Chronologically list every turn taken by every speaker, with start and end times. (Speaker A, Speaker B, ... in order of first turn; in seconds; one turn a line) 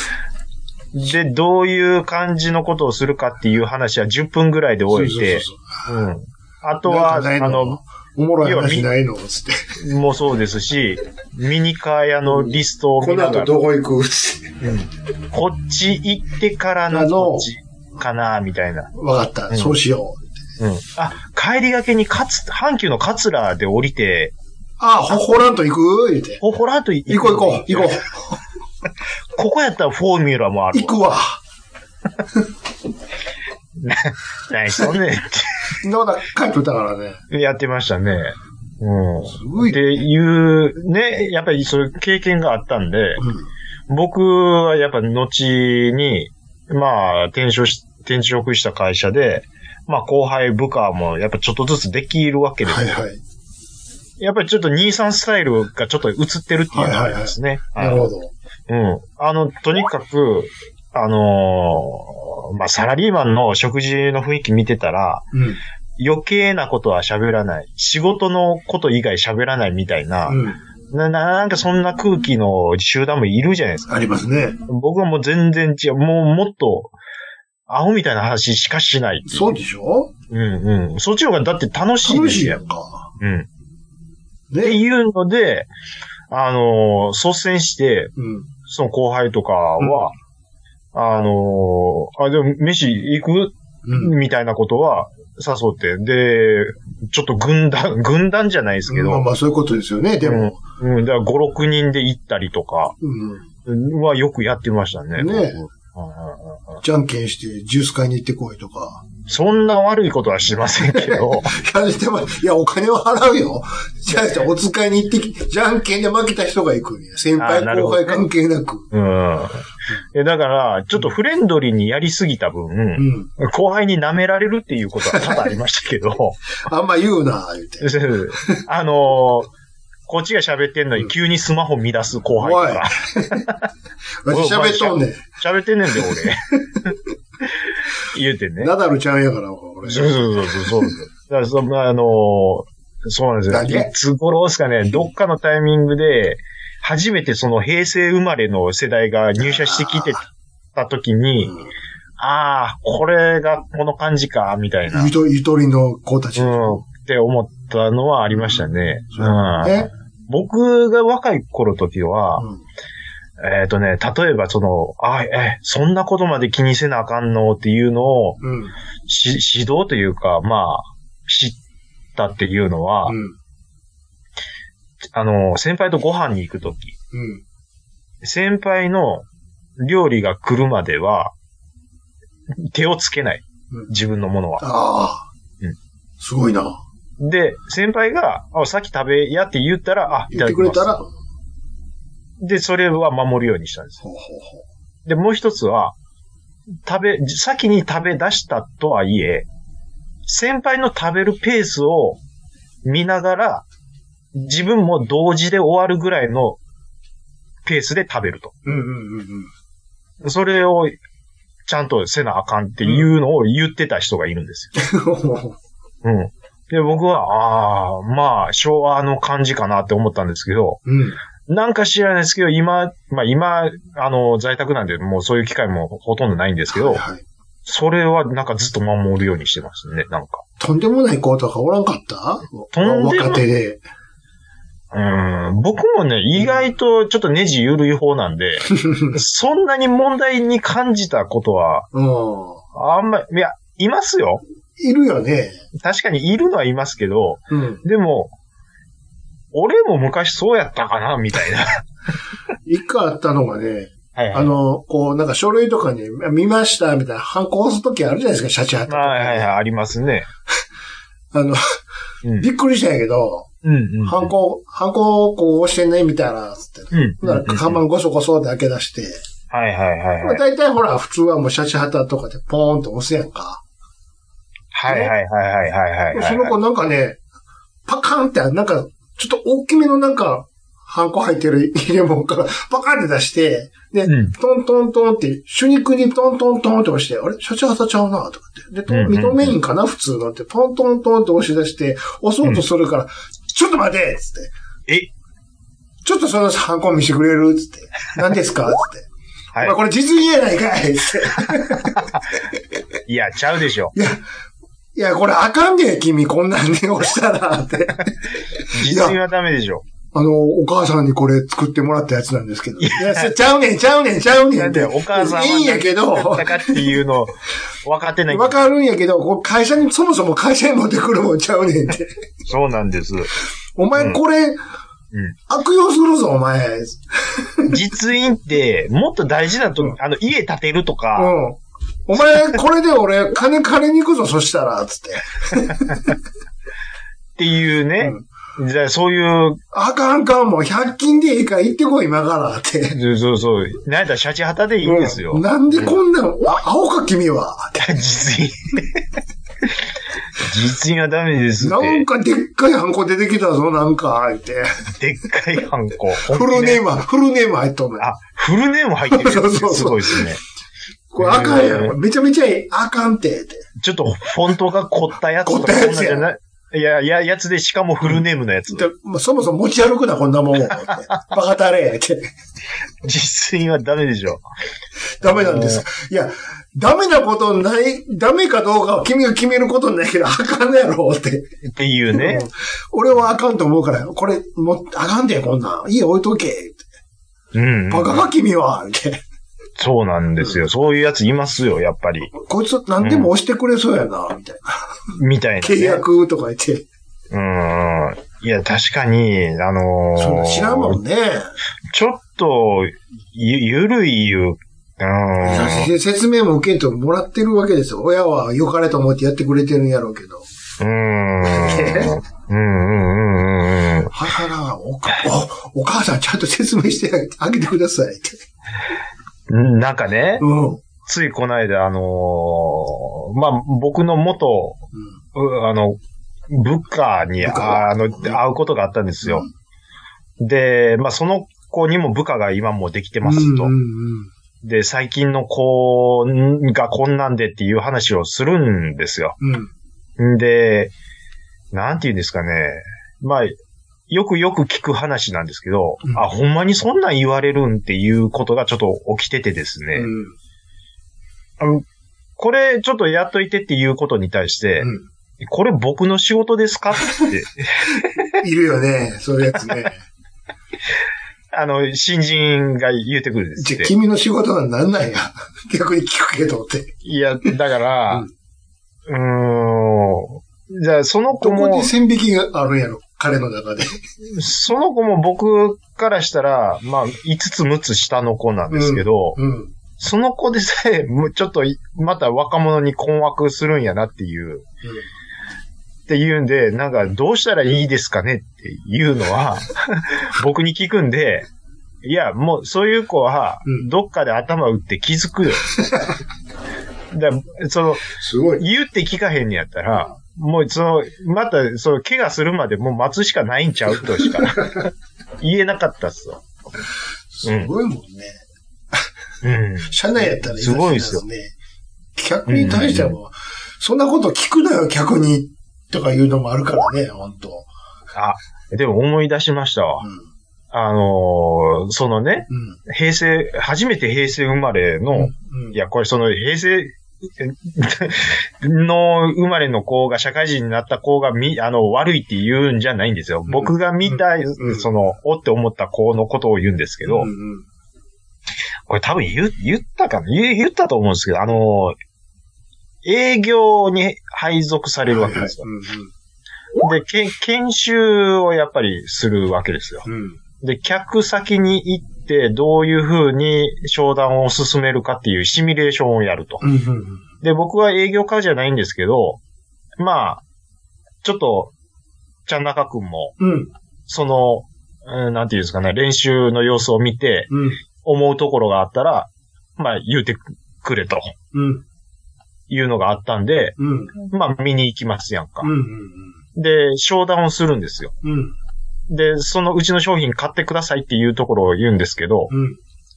Speaker A: 0.9-7.8
Speaker B: 4.9-5.9
Speaker B: 6.8-9.7
Speaker A: 8.4-8.9
Speaker A: 9.8-13.6
Speaker B: 12.3-14.6
Speaker A: 14.6-18.9
Speaker B: 16.9-17.5
Speaker B: 18.9-20.3
Speaker A: 19.5-19.8
Speaker A: 20.6-24.3
Speaker B: 24.8-26.4
Speaker A: 26.4-28.0
Speaker B: 27.1-28.3
Speaker A: 29.4-31.0
Speaker B: 30.7-31.4
Speaker A: 33.8-35.6
Speaker B: 35.8-37.2
Speaker A: 37.3-43.3
Speaker B: 39.3-39.9
Speaker B: 43.2-43.5
Speaker A: 43.9-52.9
Speaker B: 52.7-53.2
Speaker A: 54.2-58.1
Speaker B: 56.7-58.3
Speaker A: 58.7-65.3
Speaker B: 65.3-65.6
Speaker A: 66.0-73.9
Speaker B: 70.3-70.6
Speaker B: 73.9-74.6
Speaker A: 74.7-76.9
Speaker A: 77.7-79.5
Speaker B: 79.3-80.1
Speaker A: 80.3-82.6
Speaker B: 82.0-83.1
Speaker A: 83.2-83.5
Speaker B: 84.5-84.8
Speaker A: 84.6-85.7
Speaker A: 86.3-88.1
Speaker B: 88.2-88.5
Speaker A: 88.7-90.2
Speaker B: 89.8-90.1
Speaker A: 90.9-99.2
Speaker B: 93.8-94.1
Speaker B: 98.9-100.6
Speaker A: 100.2-103.0
Speaker B: 103.0-103.5
Speaker A: 103.7-106.8
Speaker B: 105.2-105.6
Speaker B: 106.8-109.0
Speaker A: 109.3-111.5
Speaker B: 110.9-118.9
Speaker A: 117.4-118.2
Speaker A: 118.9-119.6
Speaker A: 120.1-126.4
Speaker B: 123.0-123.3
Speaker B: 125.1-125.5
Speaker B: 126.6-128.6
Speaker A: 127.8-129.5
Speaker A: 130.1-133.6
Speaker B: 132.4-133.5
Speaker B: 134.2-135.2
Speaker A: 134.3-136.9
Speaker A: 138.1-138.7
Speaker B: 138.6-140.9
Speaker A: 139.8-150.2
Speaker B: 143.5-143.9
Speaker B: 149.4-150.2
Speaker A: 150.8-151.5
Speaker B: 151.4-151.7
Speaker A: 152.2-155.1
Speaker B: 154.9-156.8
Speaker A: 156.4-162.4
Speaker B: 158.3-159.9
Speaker A: 163.4-168.4
Speaker B: 168.4-168.7
Speaker A: 169.1-171.6
Speaker A: 172.2-173.2
Speaker B: 173.1-173.4
Speaker A: 175.1-176.9
Speaker B: 177.1-177.4
Speaker A: 178.2-179.3
Speaker A: 179.8-181.3
Speaker A: 182.5-184.7
Speaker B: 184.6-185.3
Speaker B: 186.2-186.8
Speaker A: 187.2-191.0
Speaker B: 190.3-191.1
Speaker A: 192.4-194.0
Speaker B: 194.0-194.6
Speaker A: 195.1-195.9
Speaker A: 196.8-199.5
Speaker A: 200.3-202.2
Speaker A: 202.8-203.7
Speaker A: 204.3-206.6
Speaker A: 207.7-208.5
Speaker B: 208.7-209.5
Speaker A: 210.2-211.0
Speaker A: 211.7-214.7
Speaker B: 214.8-215.6
Speaker A: 216.0-220.8
Speaker B: 220.9-221.2
Speaker A: 221.5-227.0
Speaker B: 226.7-227.2
Speaker A: 227.7-230.4
Speaker B: 230.6-233.8
Speaker A: 232.7-233.4
Speaker A: 234.9-241.9
Speaker B: 236.4-236.6
Speaker B: 241.9-242.6
Speaker A: 242.8-244.4
Speaker B: 244.8-245.6
Speaker A: 245.8-248.3
Speaker B: 247.5-247.8
Speaker A: 249.5-251.8
Speaker B: 252.7-259.5
Speaker A: 254.2-254.6
Speaker A: 258.9-260.3
Speaker B: 261.3-261.6
Speaker B: 262.4-263.5
Speaker A: 263.6-264.3
Speaker B: 264.0-269.2
Speaker A: 266.9-267.8
Speaker A: 269.5-270.4
Speaker B: 270.2-273.6
Speaker A: 274.7-276.5
Speaker B: 274.9-275.1
Speaker B: 276.1-277.2
Speaker B: 277.9-294.5
Speaker A: 284.1-284.3
Speaker A: 288.9-289.6
Speaker B: 296.1-299.1
Speaker B: 299.6-302.1
Speaker A: 303.1-303.9
Speaker B: 303.9-304.2
Speaker B: 304.9-308.2
Speaker A: 308.7-309.8
Speaker B: 308.7-309.2
Speaker B: 310.1-317.0
Speaker A: 312.8-313.3
Speaker A: 314.5-318.7
Speaker B: 318.3-322.1
Speaker A: 322.5-323.3
Speaker B: 323.8-324.6
Speaker B: 325.5-327.7
Speaker A: 327.7-331.3
Speaker B: 331.2-336.1
Speaker A: 337.4-339.6
Speaker B: 339.7-343.0
Speaker A: 342.9-346.0
Speaker B: 344.8-347.9
Speaker A: 347.8-349.0
Speaker A: 350.4-352.1
Speaker B: 351.6-354.8
Speaker A: 355.0-356.8
Speaker B: 356.3-358.1
Speaker A: 358.0-360.4
Speaker B: 359.1-360.3
Speaker B: 361.1-363.6
Speaker A: 361.2-362.0
Speaker A: 363.8-368.9
Speaker B: 365.4-366.3
Speaker B: 368.7-372.3
Speaker A: 373.0-374.4
Speaker B: 375.2-381.5
Speaker A: 375.2-375.8
Speaker A: 381.7-382.4
Speaker B: 382.1-386.9
Speaker A: 387.5-388.3
Speaker B: 387.9-389.2
Speaker A: 389.8-392.3
Speaker B: 392.3-394.9
Speaker A: 393.0-393.3
Speaker A: 395.1-396.0
Speaker B: 395.6-396.9
Speaker A: 397.3-401.0
Speaker B: 400.2-401.5
Speaker A: 401.9-405.9
Speaker B: 405.4-410.5
Speaker A: 410.8-414.1
Speaker B: 411.4-412.2
Speaker B: 414.1-418.4
Speaker A: 419.5-420.5
Speaker B: 420.4-420.8
Speaker A: 421.0-424.8
Speaker A: 425.4-426.0
Speaker A: 426.5-429.5
Speaker B: 427.4-428.4
Speaker B: 429.2-429.5
Speaker A: 430.4-433.7
Speaker B: 433.2-434.3
Speaker A: 434.6-439.4
Speaker B: 439.4-439.7
Speaker A: 440.2-440.9
Speaker A: 441.7-443.6
Speaker A: 444.1-450.1
Speaker B: 449.9-450.3
Speaker A: 452.4-458.3
Speaker B: 454.8-455.1
Speaker B: 458.4-460.0
Speaker A: 461.5-463.9
Speaker B: 463.6-466.9
Speaker A: 467.0-468.3
Speaker A: 469.1-471.9
Speaker B: 471.4-474.0
Speaker A: 474.3-479.4
Speaker B: 478.7-479.7
Speaker A: 480.0-484.6
Speaker A: 486.1-491.5
Speaker A: 492.0-495.8
Speaker A: 497.1-506.4
Speaker B: 498.2-498.7
Speaker B: 504.2-504.8
Speaker B: 507.3-508.4
Speaker A: 507.4-507.7
Speaker A: 509.4-511.2
Speaker B: 509.9-511.6
Speaker B: 512.2-517.7
Speaker A: 512.5-513.2
Speaker A: 518.1-520.0
Speaker A: 520.7-537.3
Speaker B: 522.5-522.8
Speaker B: 525.1-525.8
Speaker B: 533.5-534.9
Speaker B: 537.0-537.7
Speaker A: 538.9-542.0
Speaker A: 543.0-545.6
Speaker B: 545.1-546.1
Speaker A: 546.8-550.1
Speaker B: 550.1-550.4
Speaker A: 550.6-556.6
Speaker B: 556.6-557.2
Speaker A: 557.4-559.4
Speaker A: 560.0-560.4
Speaker A: 561.2-561.7
Speaker A: 562.5-563.3
Speaker B: 563.4-563.7
Speaker A: 564.1-567.5
Speaker B: 567.5-567.8
Speaker A: 568.0-571.3
Speaker B: 571.5-571.9
Speaker A: 572.7-575.7
Speaker B: 573.8-574.1
Speaker B: 575.6-576.4
Speaker A: 576.5-578.1
Speaker B: 578.2-578.6
Speaker A: 579.1-582.5
Speaker B: 582.5-582.8